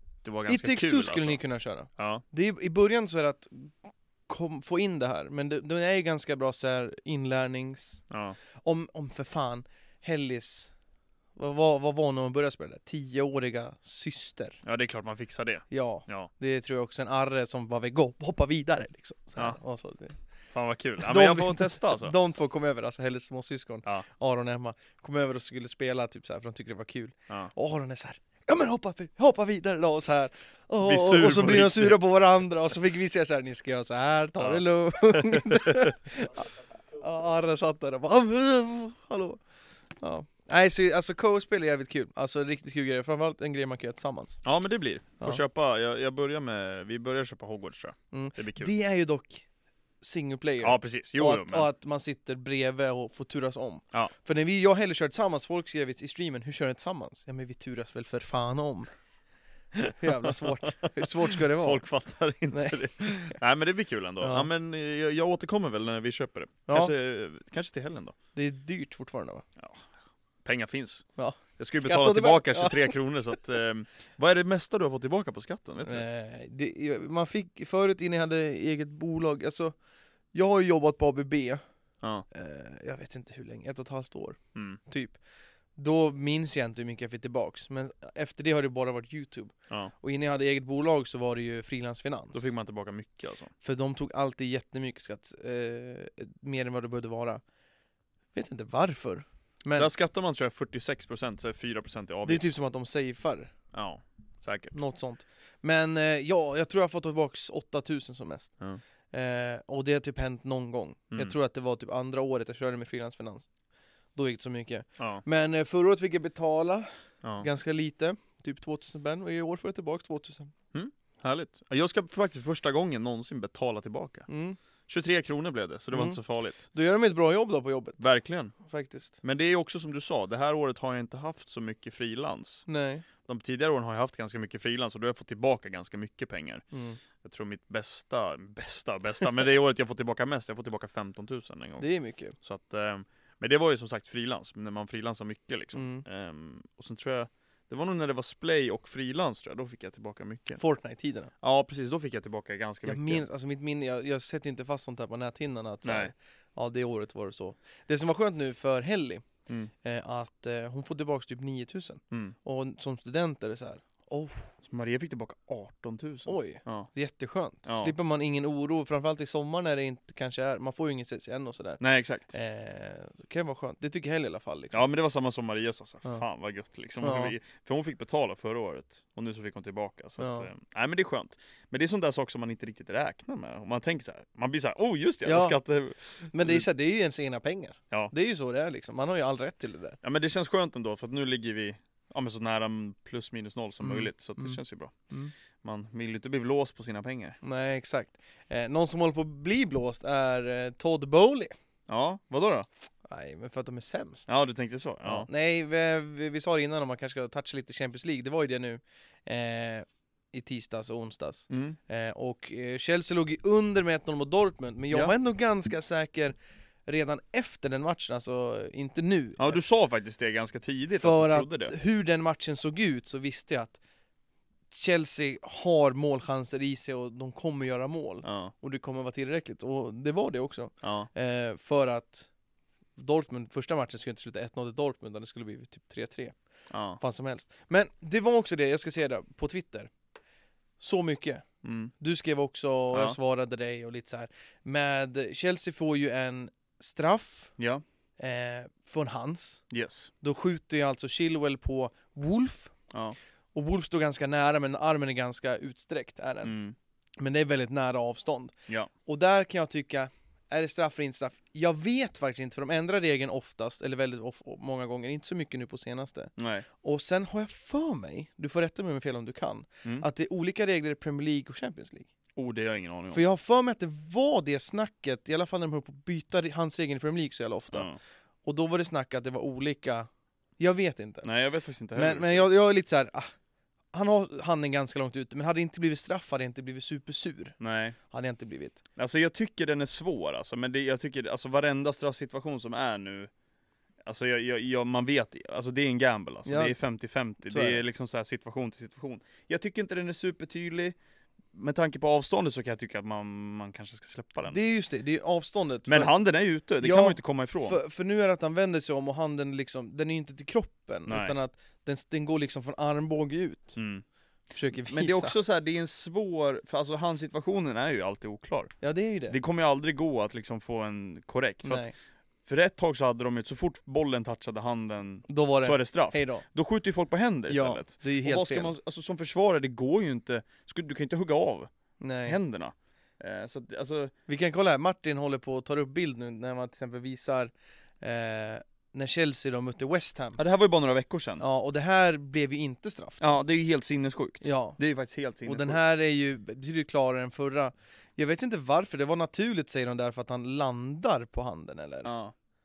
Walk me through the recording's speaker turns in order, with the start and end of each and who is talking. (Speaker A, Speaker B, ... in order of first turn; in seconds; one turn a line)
Speaker A: 0.2-1.4
Speaker B: 0.5-8.0
Speaker A: 2.0-2.2
Speaker A: 8.1-8.3
Speaker B: 8.6-10.7
Speaker B: 11.3-14.6
Speaker A: 14.6-16.3
Speaker B: 15.7-20.2
Speaker A: 20.5-22.1
Speaker B: 21.0-39.4
Speaker A: 30.8-32.0
Speaker A: 34.4-35.9
Speaker B: 40.0-44.4
Speaker A: 44.4-48.7
Speaker B: 48.1-49.5
Speaker B: 50.0-58.9
Speaker A: 50.6-51.7
Speaker A: 59.7-68.1
Speaker B: 59.9-61.8
Speaker B: 62.5-63.4
Speaker B: 64.2-64.5
Speaker B: 66.7-66.9
Speaker B: 68.3-69.4
Speaker A: 69.6-69.9
Speaker A: 70.4-71.0
Speaker B: 71.2-73.0
Speaker A: 71.6-76.0
Speaker B: 75.8-79.7
Speaker B: 80.3-81.6
Speaker B: 82.3-85.2
Speaker A: 84.5-84.8
Speaker B: 85.8-92.5
Speaker A: 92.3-93.5
Speaker B: 93.6-97.4
Speaker B: 98.3-99.9
Speaker A: 99.8-102.5
Speaker B: 102.2-103.5
Speaker A: 103.7-104.7
Speaker B: 104.7-108.6
Speaker B: 109.1-113.5
Speaker B: 114.1-120.5
Speaker A: 120.7-124.3
Speaker B: 124.3-124.6
Speaker A: 124.9-126.7
Speaker B: 125.9-128.1
Speaker A: 128.0-128.5
Speaker B: 128.6-129.2
Speaker A: 129.2-132.7
Speaker B: 132.7-133.1
Speaker A: 133.2-136.6
Speaker B: 136.7-137.0
Speaker A: 137.2-141.9
Speaker B: 141.8-142.3
Speaker A: 142.4-150.6
Speaker B: 145.7-146.0
Speaker B: 150.6-151.3
Speaker A: 151.4-153.2
Speaker B: 152.8-159.2
Speaker A: 155.8-156.1
Speaker B: 159.8-164.5
Speaker A: 164.6-166.9
Speaker B: 166.2-174.8
Speaker A: 167.7-167.9
Speaker A: 171.8-172.3
Speaker A: 174.7-186.7
Speaker B: 177.0-177.3
Speaker B: 180.2-180.5
Speaker B: 185.2-185.6
Speaker B: 186.3-190.0
Speaker A: 190.0-194.9
Speaker B: 193.8-195.3
Speaker A: 195.6-197.4
Speaker B: 197.4-201.5
Speaker A: 201.9-202.7
Speaker B: 203.1-204.3
Speaker A: 204.3-205.3
Speaker B: 205.0-216.3
Speaker A: 211.5-211.8
Speaker B: 216.8-219.6
Speaker A: 219.4-221.7
Speaker B: 221.0-223.8
Speaker B: 224.7-232.3
Speaker A: 228.2-228.5
Speaker A: 230.8-231.1
Speaker B: 233.0-236.3
Speaker A: 236.7-237.0
Speaker B: 237.0-239.9
Speaker B: 240.8-241.4
Speaker A: 241.6-241.9
Speaker B: 242.0-247.5
Speaker A: 242.9-243.2
Speaker A: 247.6-247.8
Speaker B: 248.2-249.6
Speaker A: 249.7-250.1
Speaker B: 250.2-252.7
Speaker A: 252.9-253.2
Speaker B: 253.5-256.6
Speaker A: 256.4-256.8
Speaker B: 257.2-258.5
Speaker B: 259.0-272.1
Speaker A: 266.4-266.6
Speaker A: 272.4-273.2
Speaker B: 273.1-277.9
Speaker A: 277.7-278.0
Speaker B: 278.4-281.3
Speaker A: 281.2-282.5
Speaker B: 281.9-283.3
Speaker B: 283.9-287.6
Speaker A: 287.6-287.9
Speaker B: 288.1-288.8
Speaker A: 288.9-293.3
Speaker A: 294.0-300.9
Speaker B: 296.4-296.7
Speaker B: 297.5-297.8
Speaker A: 301.5-304.6
Speaker B: 304.5-306.1
Speaker A: 305.9-307.8
Speaker B: 306.8-313.8
Speaker A: 311.1-311.3
Speaker A: 313.8-314.0
Speaker B: 314.5-315.3
Speaker A: 314.8-318.7
Speaker B: 318.8-319.4
Speaker A: 319.3-321.9
Speaker B: 321.6-321.9
Speaker A: 322.4-331.7
Speaker B: 325.3-326.4
Speaker B: 327.5-328.7
Speaker B: 332.0-332.4
Speaker A: 332.2-334.1
Speaker B: 334.3-340.4
Speaker A: 340.4-341.4
Speaker B: 341.4-343.2
Speaker A: 343.2-345.8
Speaker B: 344.4-344.8
Speaker B: 345.4-352.1
Speaker A: 352.0-352.3